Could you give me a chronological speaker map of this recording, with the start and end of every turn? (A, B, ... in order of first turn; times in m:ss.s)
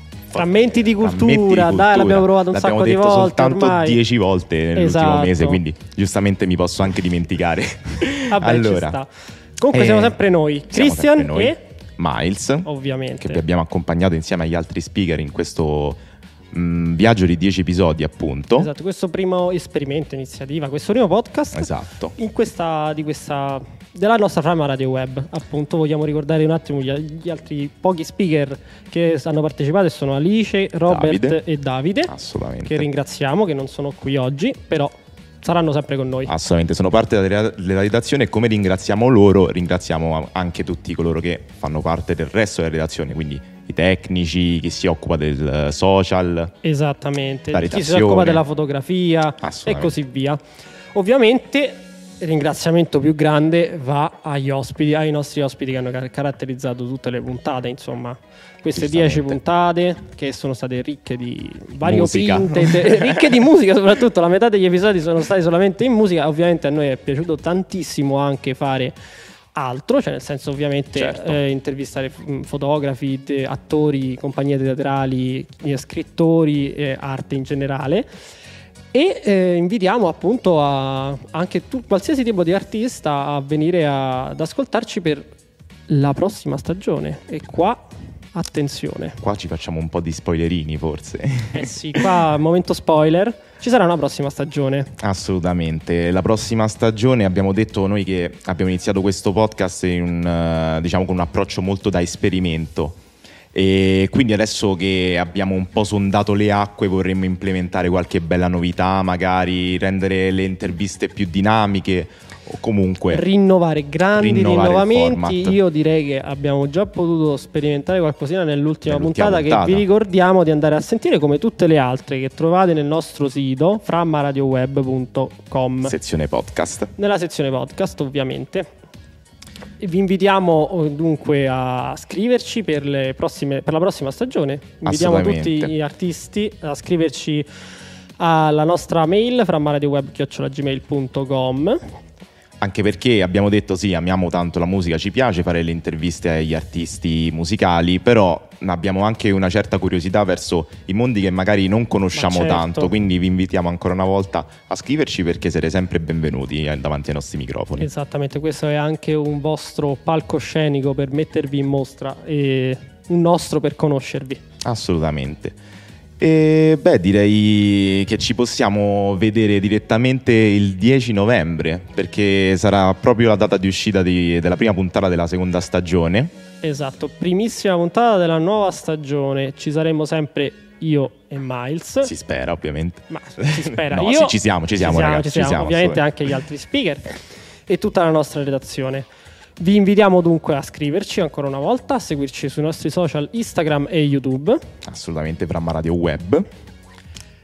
0:00.3-0:09.0 A
0:00.3-0:04.0 B
0:04.7-0:05.6 B
0:08.3-0:11.6 B
0:09.7-0:10.2 A
0:10.7-0:12.7 A
0:12.6-0:13.4 B
0:13.2-0:16.0 A
0:16.5-0:18.7 A
0:18.6-0:36.3 B
0:21.5-0:22.1 A
0:30.9-0:31.4 A
0:32.1-0:32.9 A
0:36.3-0:46.5 A
0:46.6-0:50.4 B
0:47.5-0:48.4 A
0:49.4-0:49.9 A
0:50.9-1:08.9 B
0:58.7-0:59.4 A
1:01.8-1:03.4 A
1:09.5-1:18.1 B
1:11.0-1:11.4 A
1:18.9-1:25.3 B
1:25.9-1:29.2 B
1:29.2-1:32.0 A
1:31.5-1:34.9 B
1:35.0-1:43.0 A
1:43.5-1:53.2 A
1:53.1-2:05.9 B
1:54.1-1:55.6 A
1:58.8-1:59.8 A
2:05.8-2:06.9 A
2:07.0-2:08.7 B
2:09.8-2:17.4 B
2:14.8-2:15.7 A
2:18.2-2:21.8 B
2:22.6-2:37.9 A
2:32.1-2:32.9 B
2:37.8-2:44.4 B
2:44.6-2:45.6 A
2:46.2-2:56.3 A
2:56.6-3:02.1 B
3:02.0-3:06.0 A
3:03.1-3:07.2 B
3:07.7-3:14.6 B
3:14.8-3:16.4 A